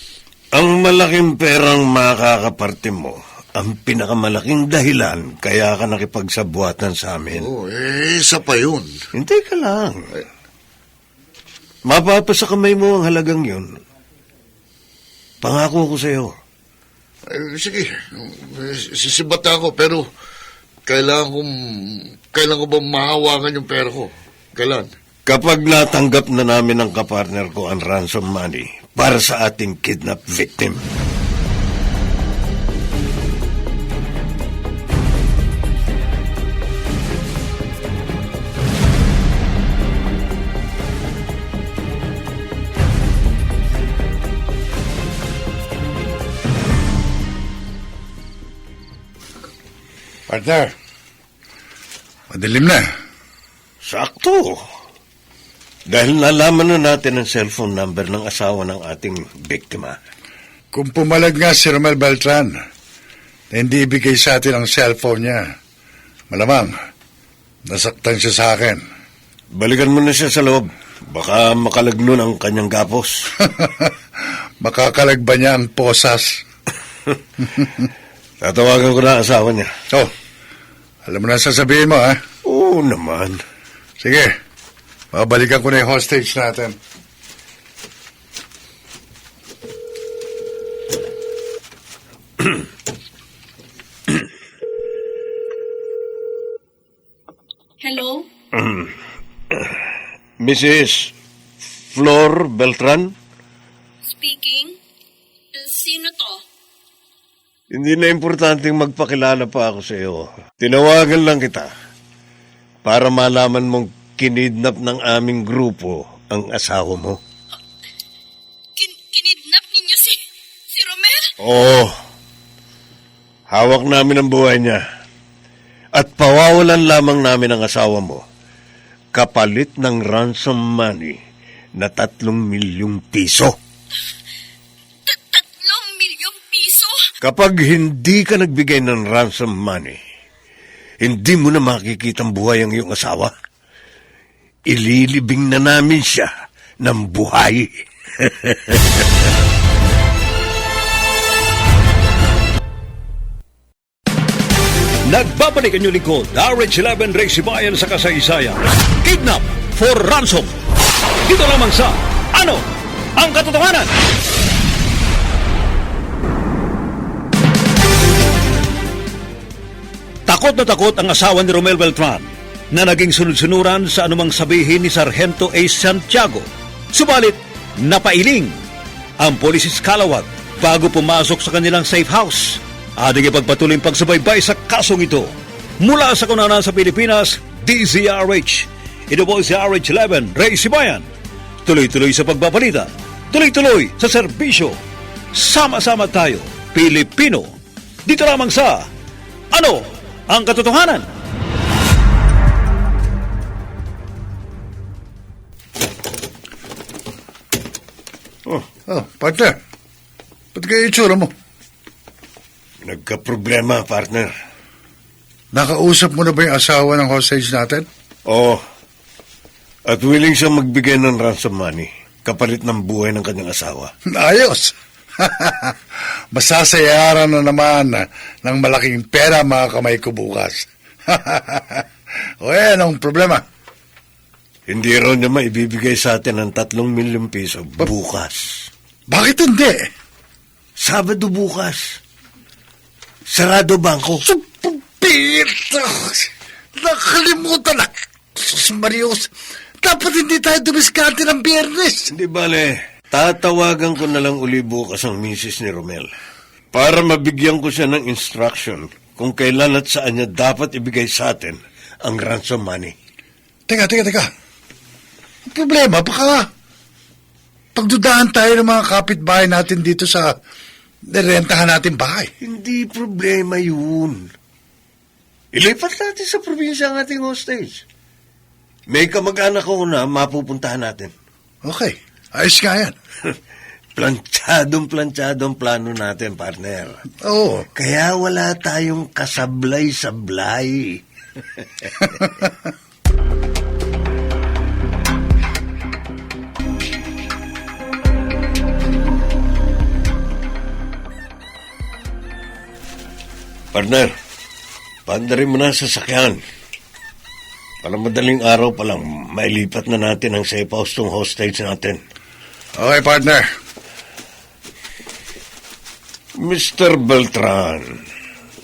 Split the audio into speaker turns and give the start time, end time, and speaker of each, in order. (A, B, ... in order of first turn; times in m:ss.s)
0:00.6-0:07.5 A
0:07.4-0:08.9 B
0:09.2-0:10.0 A
0:11.9-0:13.7 A
0:15.4-0:16.3 A
0:17.3-0:20.0 B
0:20.9-0:24.9 B
0:25.3-0:30.8 A
0:50.3-0:50.7 C
0:52.3-0:52.8 C
0:53.8-0:54.6 A
0:55.9-1:00.0 A
1:00.7-1:02.5 C
1:03.5-1:05.4 C
1:06.3-1:06.7 C
1:07.7-1:08.8 C
1:09.5-1:13.2 A
1:13.4-1:13.9 C
1:14.6-1:16.4 C
1:18.4-1:19.7 A
1:21.1-1:22.2 C
1:22.4-1:23.4 A
1:24.0-1:24.3 C
1:25.1-1:26.8 C
1:38.6-1:38.9 A
1:40.4-1:41.1 A
1:41.9-1:43.1 A
1:44.1-1:44.7 D
1:45.6-1:46.4 D
1:47.7-1:51.7 A
1:52.8-1:57.2 A
1:58.8-2:00.2 D
2:00.7-2:01.3 D
2:01.4-2:01.9 A
2:03.5-2:04.8 A
2:06.0-2:08.2 A
2:09.2-2:11.2 A
2:11.8-2:13.6 A
2:15.1-2:17.0 D
2:17.2-2:20.0 A
2:21.0-2:23.3 A
2:24.7-2:26.3 A
2:26.8-2:29.1 A
2:35.1-2:40.6 E
2:41.2-2:42.6 E
2:43.2-2:43.9 E
2:50.3-2:58.6 E
2:59.2-3:11.1 E
3:11.6-3:14.8 E
3:15.3-3:17.6 E
3:18.1-3:18.9 E
3:19.5-3:21.1 E
3:28.9-3:29.6 C
3:30.6-3:31.3 C
3:32.8-3:34.3 A
3:35.5-3:37.9 C
3:38.3-3:38.6 A
3:39.9-3:43.9 A
3:44.2-3:45.7 C
3:46.3-3:51.8 C
3:52.4-3:53.4 C
3:54.7-3:58.7 A
3:59.1-3:59.8 C
4:00.8-4:02.0 A
4:03.3-4:04.2 A
4:04.2-4:06.3 C
4:06.8-4:09.3 C
4:09.8-4:12.1 C
4:12.1-4:16.1 A
4:16.7-4:22.9 A
4:23.7-4:24.3 C
4:25.5-4:26.5 C
4:27.8-4:30.3 C
4:31.1-4:32.3 C
4:32.4-4:34.3 A
4:35.5-4:37.8 A
4:38.9-4:41.1 A
4:41.6-4:43.0 C
4:44.0-4:47.0 A
4:47.2-4:47.7 C
4:47.8-4:51.0 A
4:51.6-4:51.9 A
4:52.2-4:52.5 C
5:03.7-5:04.1 A
5:05.1-5:06.4 A
5:07.8-5:12.0 A
5:12.8-5:13.4 C
5:16.4-5:18.0 A